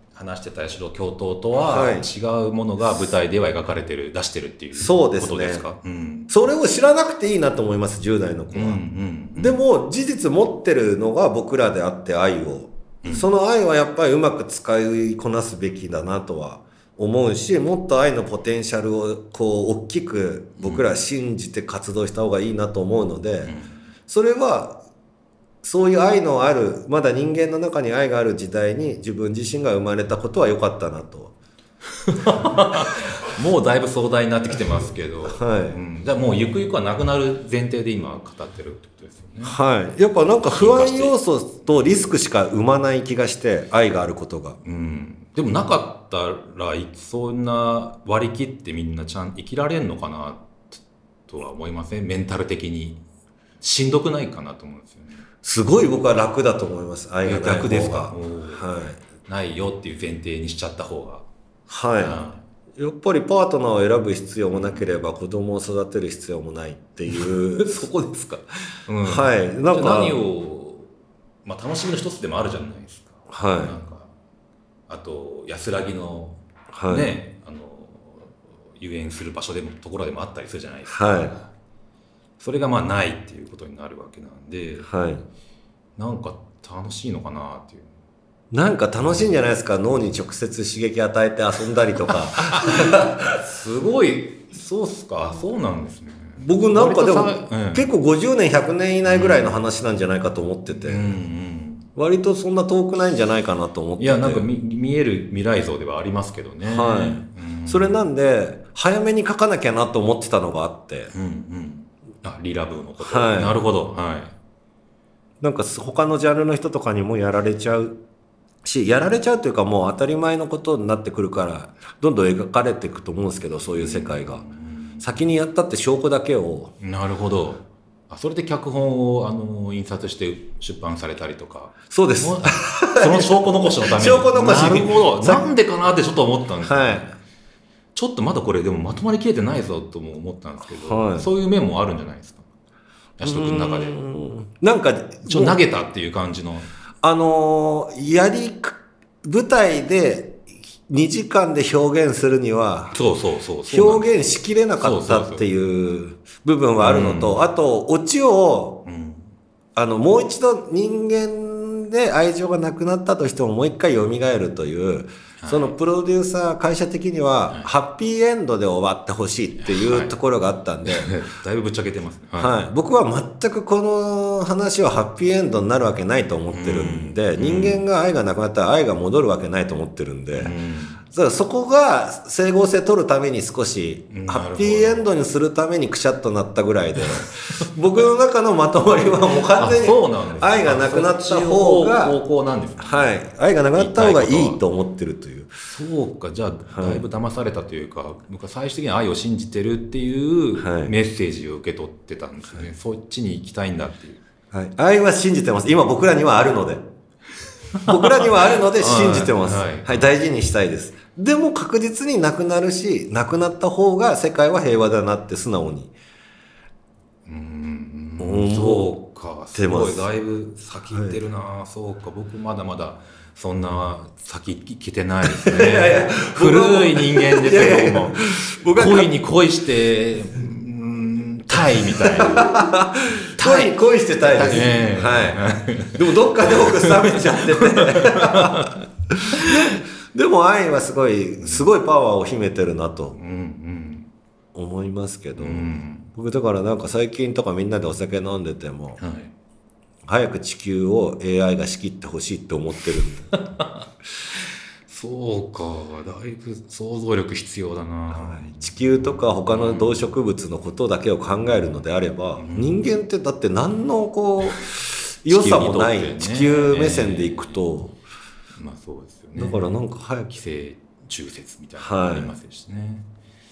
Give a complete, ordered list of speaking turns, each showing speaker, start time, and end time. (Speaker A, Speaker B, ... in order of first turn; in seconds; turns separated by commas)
Speaker A: 0.1-6.3, Speaker B: 1.6-2.1, Speaker B: 4.7-5.7, Speaker B: 6.3-8.8, Speaker A: 8.5-9.6, Speaker B: 9.3-23.5, Speaker A: 13.0-13.3, Speaker A: 20.6-20.9, Speaker A: 23.4-23.8, Speaker B: 24.1-24.8, Speaker B: 25.6-31.3, Speaker A: 32.0-39.6, Speaker B: 35.3-35.8, Speaker B: 39.4-44.6, Speaker A: 40.3-41.1, Speaker A: 44.6-53.0, Speaker A: 53.6-55.2, Speaker B: 55.4-59.0, Speaker A: 57.2-58.6, Speaker A: 59.2-61.3, Speaker B: 61.7-62.2, Speaker A: 62.0-62.4, Speaker B: 62.8-67.8, Speaker A: 64.5-64.9, Speaker A: 67.1-70.9, Speaker B: 69.0-70.2, Speaker A: 71.4-74.1, Speaker B: 73.3-73.8, Speaker A: 74.9-81.5, Speaker B: 76.7-77.1, Speaker B: 80.9-81.3, Speaker A: 82.4-84.9, Speaker B: 84.8-85.2, Speaker A: 86.0-87.9, Speaker B: 88.5-93.3, Speaker A: 92.4-97.9, Speaker B: 96.4-101.2, Speaker A: 99.0-99.5, Speaker A: 100.8-101.8, Speaker B: 102.0-104.5, Speaker A: 104.0-108.0, Speaker B: 106.6-111.1, Speaker A: 111.1-114.3, Speaker B: 113.0-113.6, Speaker B: 115.4-118.0, Speaker B: 118.6-124.4, Speaker A: 123.8-125.1, Speaker B: 125.0-126.7, Speaker A: 126.8-137.0, Speaker B: 131.9-135.4, Speaker B: 136.6-137.1, Speaker A: 137.9-142.4, Speaker B: 140.8-141.3, Speaker A: 143.2-144.0, Speaker B: 143.2-145.6, Speaker A: 145.2-146.7, Speaker B: 147.0-153.0, Speaker A: 152.9-154.1, Speaker B: 153.7-158.8, Speaker A: 154.8-155.5, Speaker A: 156.8-157.4, Speaker A: 158.8-159.3, Speaker B: 159.8-171.1, Speaker A: 165.4-165.7, Speaker A: 169.6-170.1, Speaker A: 170.8-172.6, Speaker B: 172.4-180.5, Speaker A: 176.5-177.8, Speaker A: 180.3-181.0, Speaker B: 181.1-192.2, Speaker A: 184.1-185.0, Speaker A: 187.0-187.7, Speaker A: 189.6-193.2, Speaker B: 192.8-195.5, Speaker A: 193.7-194.6, Speaker A: 195.7-204.2, Speaker B: 196.7-197.0, Speaker B: 200.6-200.9, Speaker B: 204.5-206.8, Speaker A: 207.8-210.1, Speaker B: 207.9-215.9, Speaker A: 217.2-232.7, Speaker B: 218.2-218.9, Speaker B: 219.5-220.1, Speaker B: 220.9-221.2, Speaker B: 225.3-229.1, Speaker B: 232.0-235.4, Speaker A: 233.3-239.5, Speaker B: 235.9-243.2, Speaker A: 243.2-244.1, Speaker B: 244.5-249.0, Speaker A: 245.4-246.1, Speaker A: 249.0-249.3, Speaker B: 250.1-253.3, Speaker A: 253.3-253.8, Speaker A: 254.4-260.1, Speaker B: 258.1-268.0, Speaker A: 261.4-261.7, Speaker A: 262.4-262.9, Speaker A: 265.3-267.7, Speaker A: 268.6-273.1, Speaker B: 269.4-270.3, Speaker B: 271.8-272.3